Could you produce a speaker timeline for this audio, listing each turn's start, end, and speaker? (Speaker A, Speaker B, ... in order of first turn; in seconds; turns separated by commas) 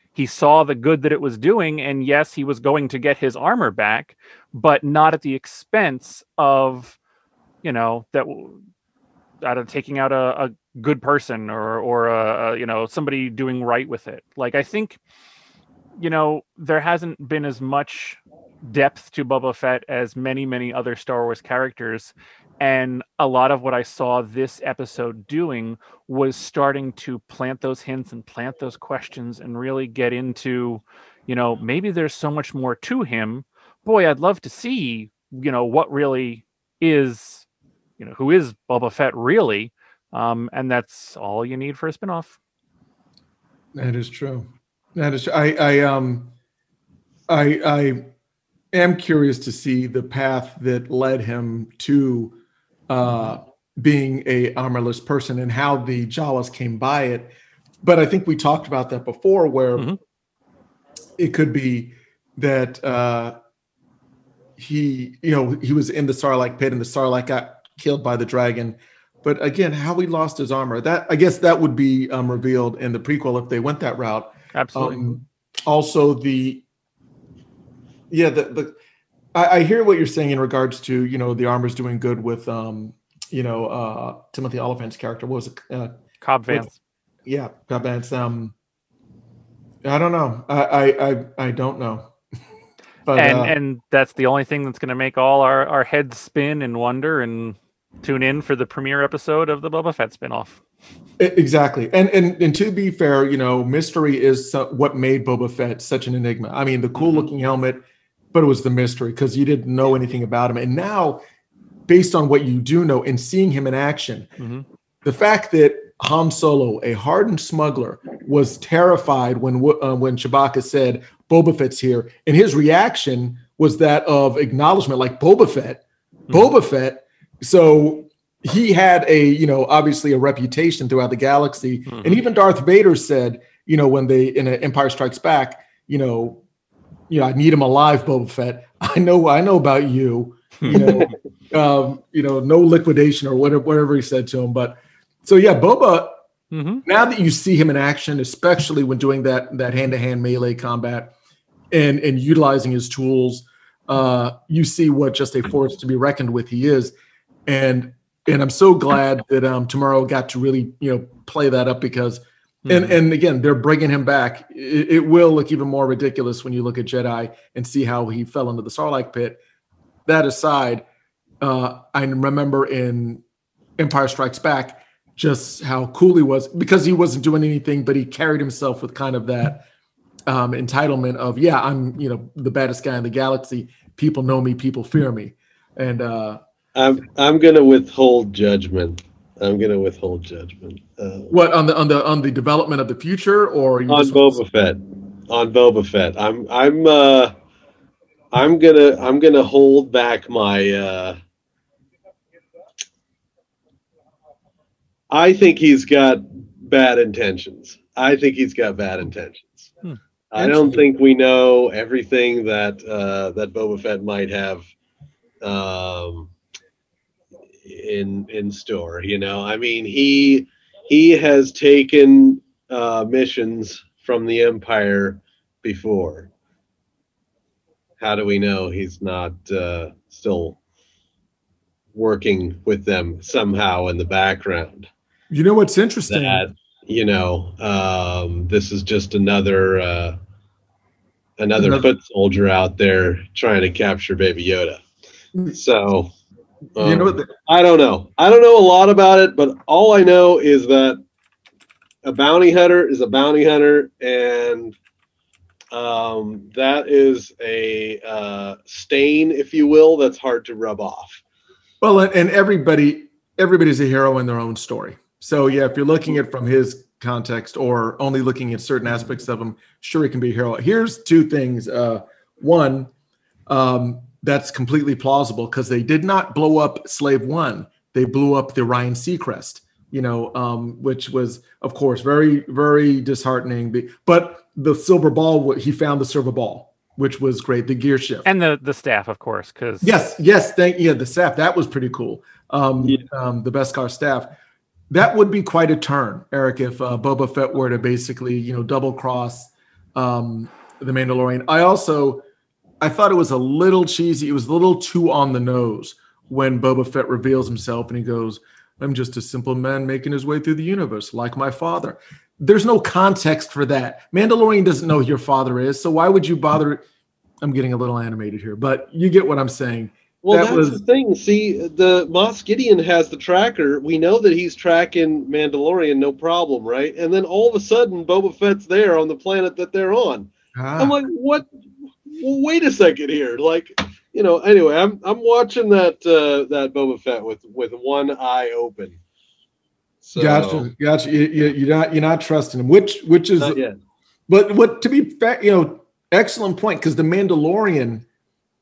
Speaker A: 0.1-7.0, Speaker A: 7.6-8.6, Speaker A: 9.4-15.0, Speaker A: 16.0-37.5, Speaker A: 38.0-42.4, Speaker B: 43.8-46.3, Speaker B: 47.3-48.0, Speaker B: 48.7-52.4, Speaker B: 52.9-57.3, Speaker B: 57.8-59.9, Speaker B: 61.2-63.4, Speaker B: 64.6-76.7, Speaker A: 74.5-75.2, Speaker B: 78.1-78.8, Speaker B: 79.3-86.0, Speaker A: 86.2-86.8, Speaker B: 87.2-88.5, Speaker B: 89.8-92.1, Speaker B: 93.1-93.5, Speaker A: 93.2-100.6, Speaker B: 101.2-111.2, Speaker A: 107.0-107.3, Speaker B: 111.9-114.3, Speaker A: 114.4-114.7, Speaker B: 115.0-136.4, Speaker A: 131.9-132.2, Speaker B: 137.1-146.2, Speaker C: 140.7-141.0, Speaker A: 146.5-146.8, Speaker B: 146.9-151.1, Speaker B: 151.7-156.9, Speaker B: 157.5-169.4, Speaker A: 162.7-163.0, Speaker B: 170.1-170.8, Speaker B: 171.4-173.2, Speaker B: 173.8-179.7, Speaker B: 180.3-186.4, Speaker C: 186.8-191.3, Speaker B: 191.3-194.4, Speaker C: 193.9-197.3, Speaker C: 198.3-201.2, Speaker C: 205.1-209.7, Speaker C: 210.3-214.6, Speaker B: 210.4-210.8, Speaker C: 215.4-216.3, Speaker C: 217.6-226.3, Speaker C: 228.0-230.6, Speaker C: 231.9-234.9, Speaker B: 235.3-236.4, Speaker C: 236.1-240.2, Speaker C: 241.4-244.8, Speaker B: 241.6-241.9, Speaker C: 245.5-246.1, Speaker C: 246.8-251.0, Speaker B: 246.8-247.3, Speaker C: 252.0-254.8, Speaker C: 255.7-261.2, Speaker B: 261.8-272.9, Speaker B: 273.5-288.3, Speaker A: 288.2-290.0, Speaker B: 289.8-294.3, Speaker B: 294.9-302.2, Speaker B: 302.8-316.8, Speaker B: 317.4-320.8, Speaker C: 320.2-331.5, Speaker B: 330.6-331.0, Speaker C: 332.1-339.0, Speaker C: 340.0-340.7, Speaker B: 340.2-343.6, Speaker C: 343.4-343.8, Speaker B: 344.3-348.1